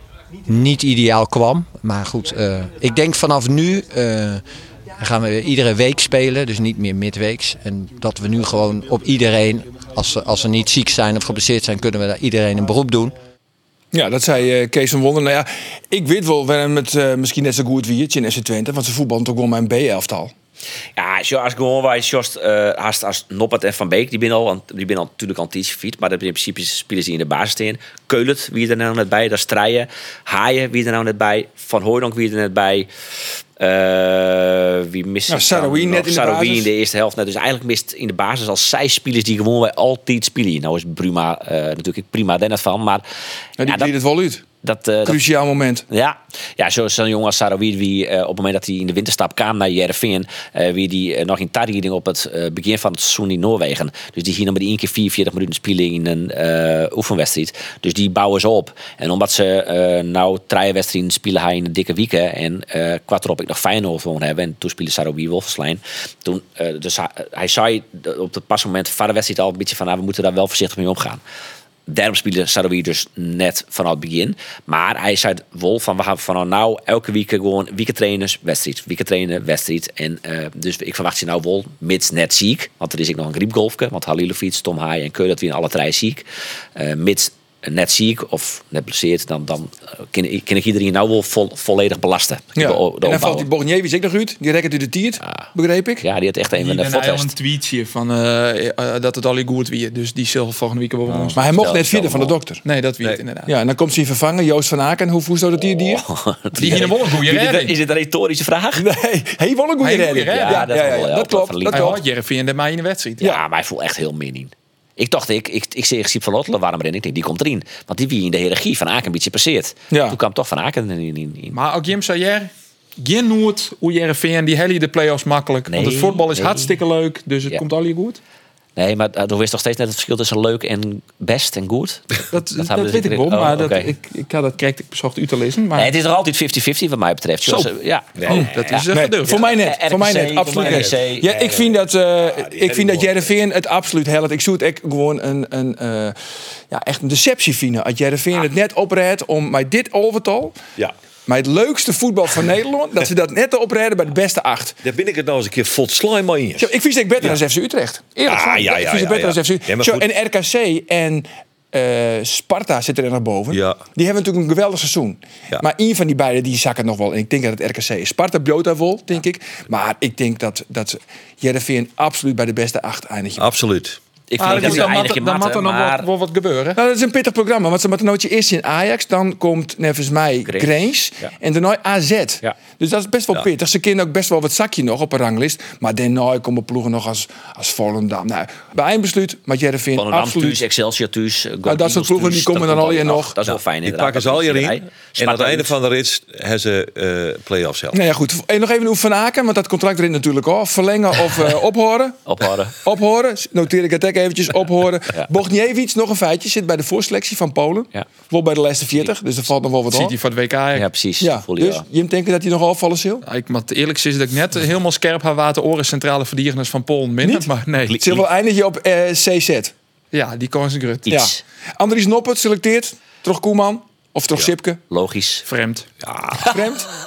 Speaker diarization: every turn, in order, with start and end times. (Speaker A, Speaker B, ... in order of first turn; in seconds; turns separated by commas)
Speaker A: 0.5-4.4, Speaker A: 5.0-13.1, Speaker B: 13.9-20.3, Speaker C: 21.0-32.9, Speaker C: 33.6-43.0, Speaker B: 35.3-36.7, Speaker B: 43.6-44.4, Speaker C: 43.6-43.9, Speaker C: 44.6-45.2, Speaker B: 45.0-45.8, Speaker C: 45.9-71.2, Speaker C: 71.9-86.2, Speaker C: 86.8-93.5, Speaker B: 92.5-96.0, Speaker C: 95.2-95.5, Speaker C: 96.0-97.3, Speaker D: 96.5-101.4, Speaker B: 101.3-102.6, Speaker C: 101.5-102.3, Speaker D: 102.6-103.5, Speaker B: 103.5-106.0, Speaker C: 105.9-108.8, Speaker D: 106.6-107.8, Speaker B: 108.8-112.0, Speaker D: 109.8-110.7, Speaker C: 110.3-112.0, Speaker D: 111.7-113.3, Speaker C: 113.2-121.6, Speaker B: 119.9-120.2, Speaker D: 121.5-128.2, Speaker C: 125.7-126.8, Speaker C: 128.8-133.9, Speaker D: 132.3-135.9, Speaker C: 135.8-141.3, Speaker D: 137.4-137.7, Speaker E: 138.2-138.5, Speaker D: 138.3-139.4, Speaker B: 138.3-146.2, Speaker E: 140.4-143.3, Speaker B: 146.7-150.6, Speaker B: 151.3-154.8, Speaker E: 154.8-157.4, Speaker B: 156.6-173.5, Speaker E: 158.3-160.1, Speaker E: 163.5-163.8, Speaker E: 173.4-174.0, Speaker C: 174.3-176.1, Speaker D: 174.4-176.8, Speaker B: 174.5-174.9, Speaker B: 176.7-190.6, Speaker C: 189.9-195.7, Speaker B: 191.6-193.4, Speaker E: 193.8-198.0, Speaker B: 197.9-202.2, Speaker C: 202.2-202.8, Speaker B: 202.8-210.1, Speaker D: 209.9-210.9, Speaker C: 210.7-211.8, Speaker B: 211.2-213.2, Speaker D: 213.2-217.9, Speaker C: 217.8-218.2, Speaker B: 218.0-219.7, Speaker D: 220.1-221.1, Speaker C: 221.1-221.4, Speaker B: 221.1-224.8, Speaker C: 224.9-225.4, Speaker D: 225.5-225.9, Speaker B: 226.5-226.9